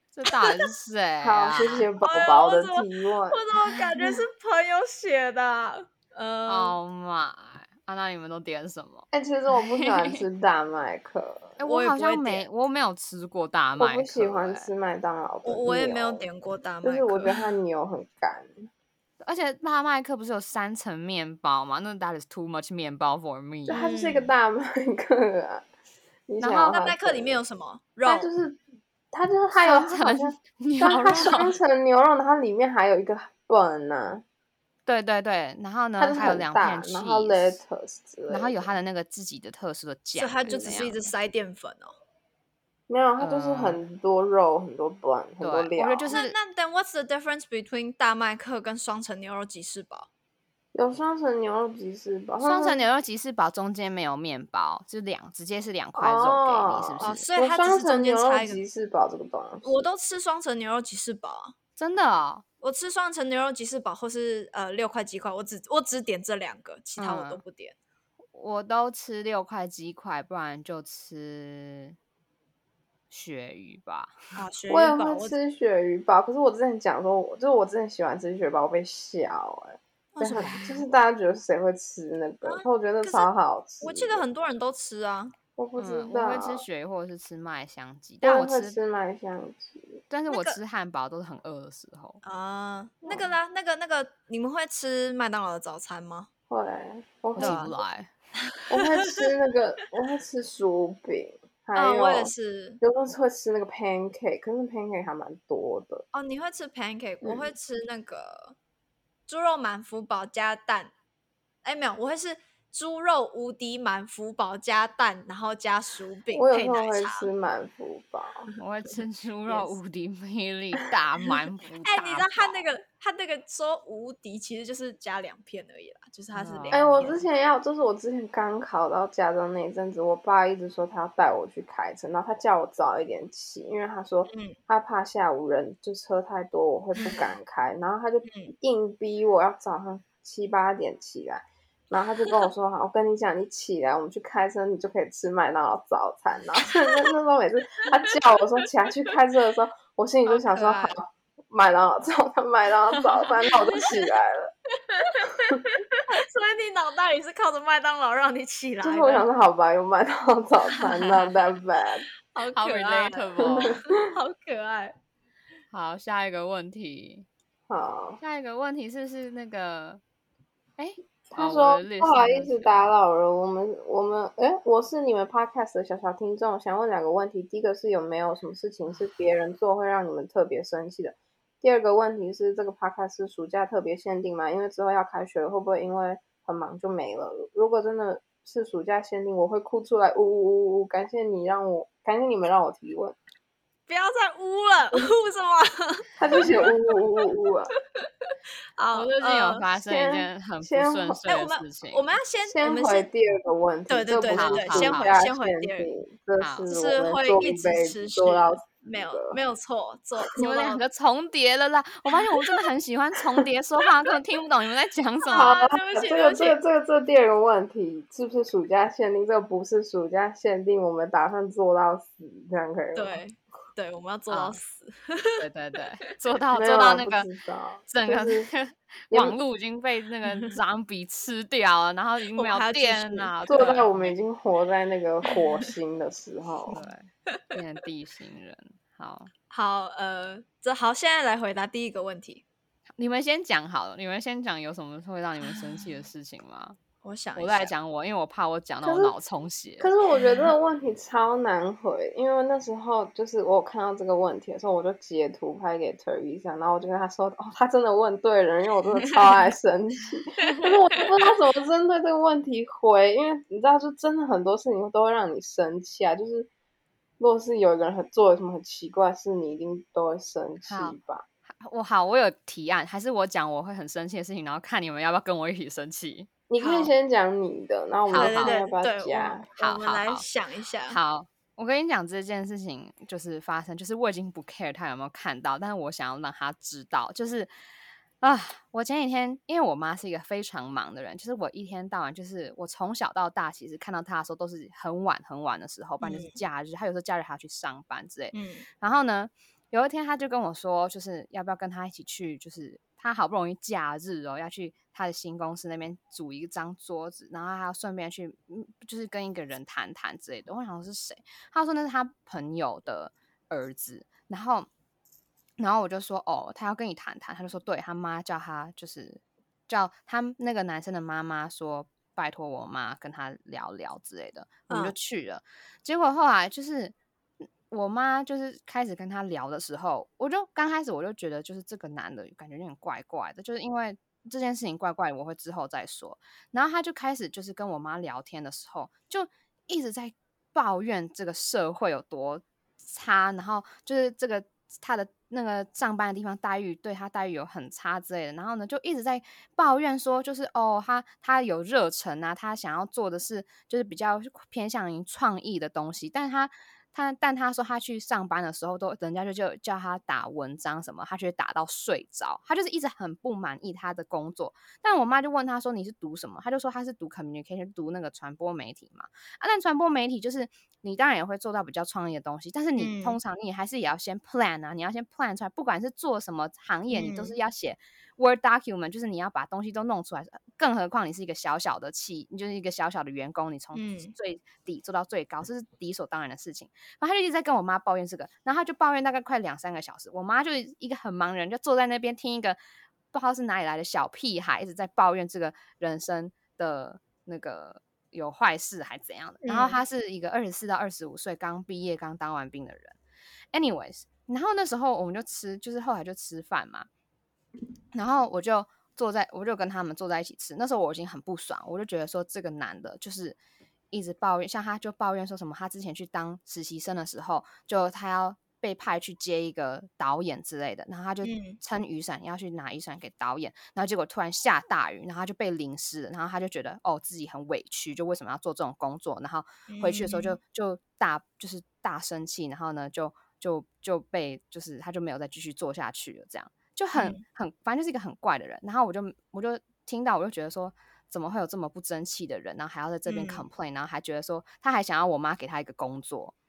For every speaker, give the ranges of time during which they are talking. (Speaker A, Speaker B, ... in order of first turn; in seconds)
Speaker A: 0.1-1.9, 6.5-10.2, 11.6-14.7, 19.2-23.8, 26.4-26.8, 29.5-31.6, 34.9-37.6, 38.3-41.0, 43.2-43.8, 45.4-46.4, 52.4-57.2, 61.8-62.4, 67.0-67.4, 68.3-72.0, 73.1-74.2, 85.8-88.8, 90.1-92.2, 97.4-98.1, 118.6-122.7, 126.3-127.2, 162.5-163.8, 165.7-167.3, 168.2-170.0, 170.8-172.8, 198.9-202.1, 204.3-205.2, 206.4-206.7, 210.4-215.6, 224.3-224.6, 225.4-227.3, 227.9-234.1, 236.7-239.3, 243.0-246.8, 247.3-249.9, 270.6-271.0, 271.5-276.3, 278.1-278.6, 279.6-280.2, 280.9-287.5, 288.2-314.7, 315.6-392.6, 393.1-403.0, 403.5-406.9, 407.9-413.4, 413.9-446.3
Speaker B: 1.2-4.2, 9.1-11.6, 13.8-16.3, 16.8-18.7, 23.7-25.7, 26.3-27.4, 28.1-28.6, 29.1-34.2, 36.0-38.7, 42.9-46.2, 50.8-52.9, 56.0-59.9, 74.7-84.2, 85.6-86.6, 88.2-90.0, 93.0-93.3, 96.5-97.7, 98.7-106.0, 107.2-107.5, 116.3-118.5, 126.7-154.5, 155.2-155.7, 158.8-162.1, 163.4-164.0, 167.7-168.2, 171.3-193.2, 196.2-197.7, 199.7-201.2, 202.5-209.4, 215.3-223.2, 226.5-228.5, 229.1-229.4, 233.5-236.8, 248.8-249.1, 249.8-266.5, 267.2-271.2, 276.5-279.5
Speaker C: 2.0-6.8, 11.7-12.5, 15.4-17.5, 23.7-24.3, 26.7-28.3, 40.1-42.0, 46.1-50.1, 57.0-58.6, 59.6-61.5, 62.6-67.8, 74.4-75.4, 80.1-80.8, 82.5-85.4, 90.3-90.6, 92.2-96.3, 97.4-97.8, 98.5-99.2, 101.8-102.8, 106.1-108.6, 109.3-110.9, 111.6-117.3, 121.8-127.2, 134.3-134.6, 137.0-137.3, 138.3-138.5, 150.3-151.0, 154.8-155.3, 156.0-159.3, 160.8-161.3, 162.3-164.9, 193.9-197.2, 198.0-199.7, 201.3-203.1, 203.9-205.9, 206.7-210.8, 215.3-216.6, 222.9-225.4, 232.3-233.4, 235.3-235.7, 236.7-237.4, 239.5-242.4, 245.4-246.1, 247.0-247.7, 250.1-250.5, 260.4-261.0, 276.6-276.9, 278.1-281.0, 296.0-296.4, 298.3-298.7, 324.7-324.9, 372.8-373.2, 376.9-377.4, 383.7-384.1, 399.4-399.8, 421.2-421.6, 429.7-430.4, 436.9-437.2, 443.1-443.5